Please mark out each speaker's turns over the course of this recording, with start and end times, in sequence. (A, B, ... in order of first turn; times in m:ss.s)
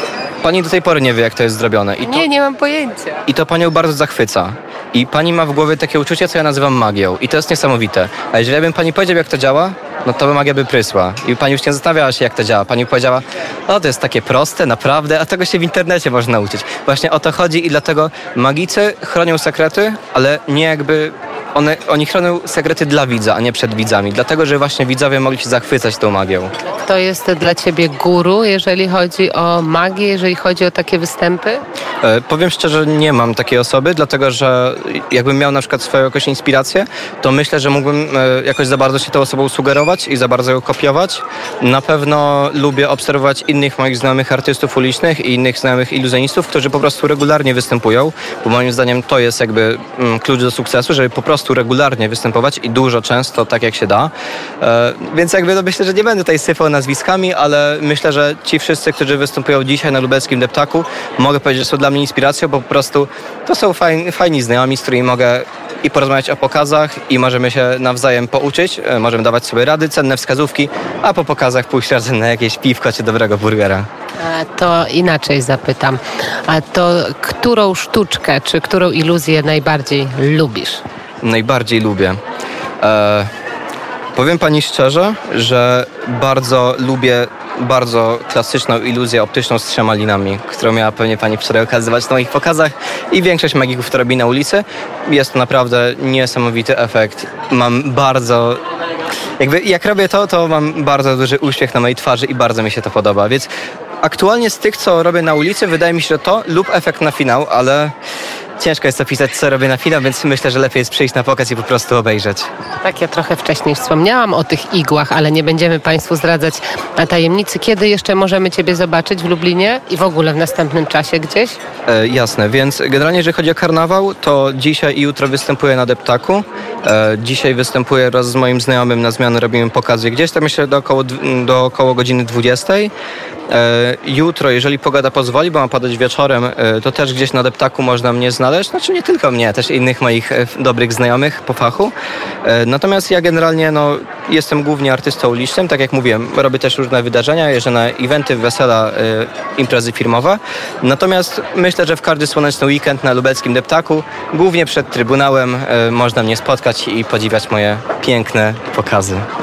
0:00.4-0:02.2 A
0:02.0-0:03.2 B
0:03.3-0:26.5 A
0:26.8-0:31.6 B
0:32.0-1:13.8 A
1:14.2-1:20.8 B
1:21.2-1:22.2 A
1:22.8-1:23.3 A
1:24.2-1:38.6 A
1:39.4-1:43.5 A
1:44.0-1:47.9 A
1:48.6-1:52.5 A
1:52.8-2:01.6 B
2:01.9-2:12.9 A
2:13.5-2:21.9 A
2:22.4-2:39.2 A